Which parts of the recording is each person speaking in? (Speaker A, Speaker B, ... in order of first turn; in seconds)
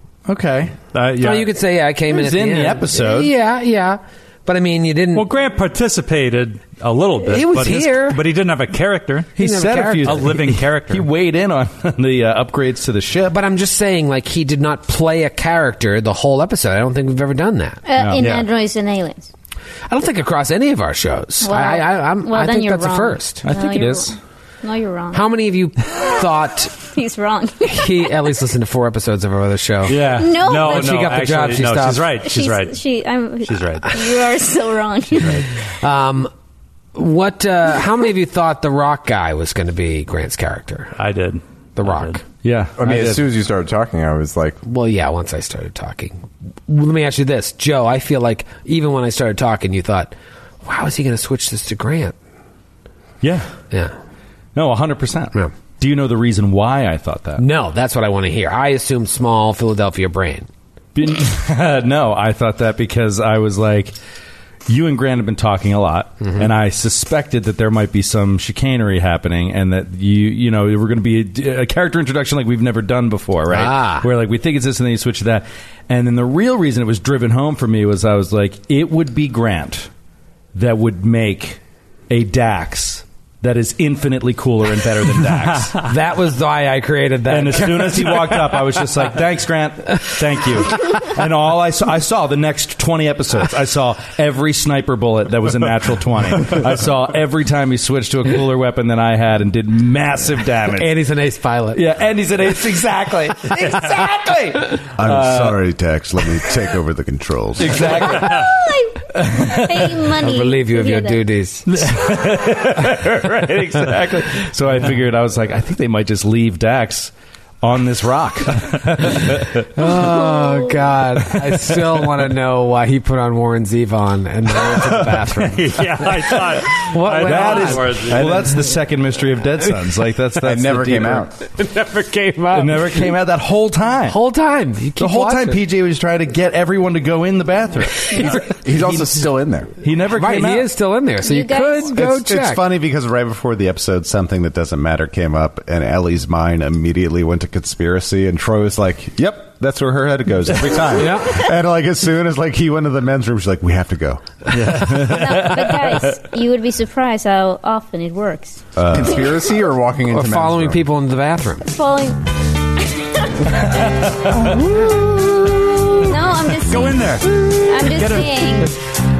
Speaker A: 0.2-0.8, 2.1-3.3, 9.4-13.3, 18.0-18.3, 23.4-24.1, 42.4-43.2, 53.2-53.5, 54.5-57.4, 60.9-63.9, 64.7-79.9, 80.5-85.8, 87.3-101.0, 101.7-105.5, 107.6-108.6, 109.3-109.9, 111.7-119.6, 127.0-131.3, 132.5-134.2, 135.0-139.0, 139.8-140.7, 154.6-155.9
Speaker B: 0.9-1.5, 5.1-9.3, 10.0-11.1, 18.2-18.5, 29.9-32.8, 33.5-33.8, 41.0-42.2, 125.5-128.6, 154.5-155.6, 166.6-167.3, 167.8-168.5
Speaker C: 1.2-5.3, 7.2-8.2, 9.4-10.4, 13.3-17.8, 19.9-23.5, 25.1-26.8, 27.6-32.1, 35.7-36.3, 36.9-40.9, 41.8-42.2, 44.6-52.1, 57.4-60.5, 66.2-66.5, 73.5-74.1, 85.8-88.7, 100.7-101.8, 110.2-111.8, 119.7-128.5, 131.5-133.2, 134.1-135.6, 140.1-142.6, 150.9-151.4, 160.1-161.7
Speaker D: 17.9-19.3, 21.4-24.1, 24.6-25.3, 26.8-28.1, 30.0-31.1, 32.1-35.5, 108.1-111.2, 120.3-120.6, 141.2-142.0, 154.8-158.6, 159.1-159.4, 161.6-162.2, 163.3-165.3, 166.0-168.8
Speaker E: 42.8-44.6, 130.4-131.3, 138.4-139.7, 158.9-160.8
Speaker F: 104.9-108.0, 141.9-154.2, 158.8-159.2